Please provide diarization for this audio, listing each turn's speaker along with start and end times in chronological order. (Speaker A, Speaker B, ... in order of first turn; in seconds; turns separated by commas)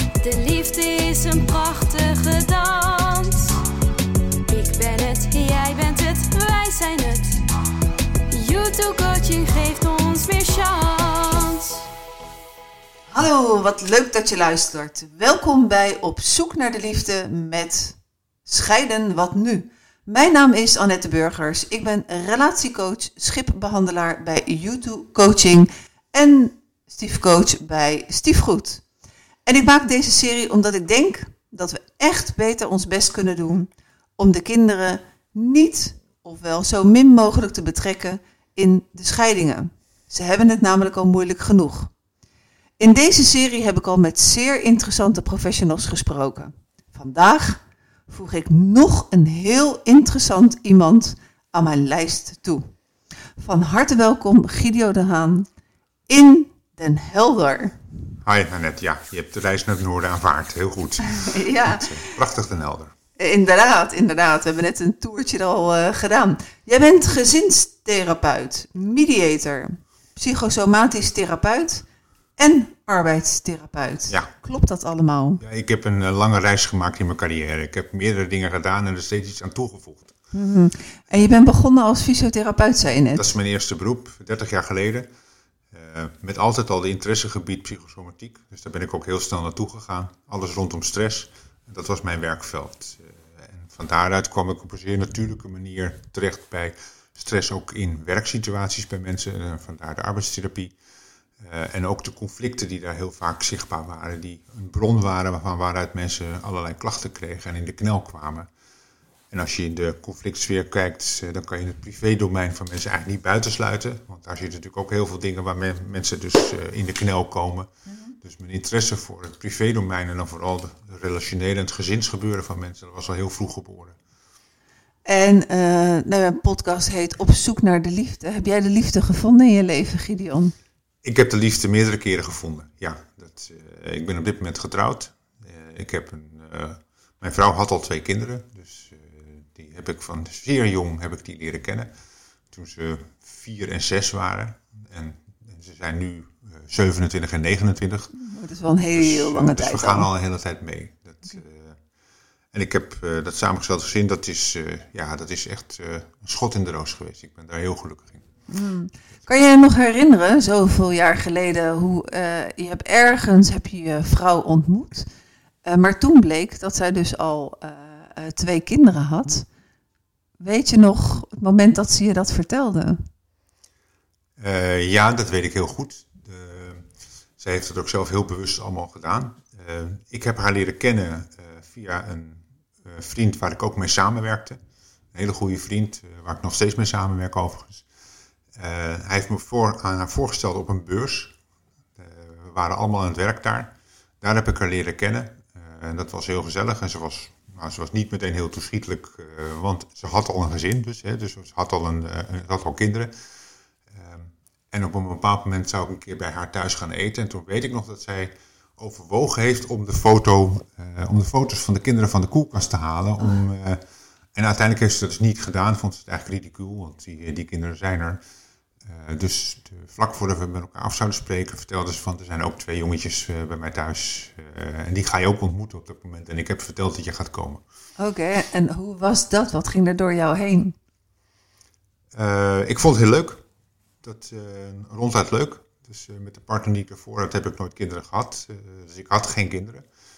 Speaker A: 0.2-3.6, Speaker A: 4.5-7.4, Speaker A: 8.3-11.9, Speaker B: 13.1-28.8, Speaker B: 29.5-41.9, Speaker B: 42.8-52.7, Speaker B: 53.4-55.5, Speaker B: 56.1-57.8, Speaker C: 58.2-62.9, Speaker B: 61.0-62.2, Speaker B: 63.2-71.8, Speaker B: 72.4-75.4, Speaker C: 75.4-80.1, Speaker B: 80.3-83.3, Speaker C: 83.1-85.1, Speaker C: 85.7-100.8, Speaker C: 101.4-108.5, Speaker C: 109.3-117.7, Speaker C: 118.2-124.0, Speaker B: 125.1-130.5, Speaker C: 131.0-141.9, Speaker C: 142.5-148.1, Speaker B: 148.2-150.1, Speaker C: 148.9-151.8, Speaker C: 152.5-158.2, Speaker B: 158.5-165.1, Speaker B: 165.7-169.5, Speaker B: 170.4-173.0, Speaker C: 174.4-184.6, Speaker C: 185.1-187.9, Speaker C: 188.5-191.4, Speaker C: 192.0-203.1, Speaker C: 203.9-213.8, Speaker C: 214.3-218.2, Speaker C: 218.8-227.6, Speaker B: 228.0-230.8, Speaker C: 232.1-233.4, Speaker C: 234.0-239.8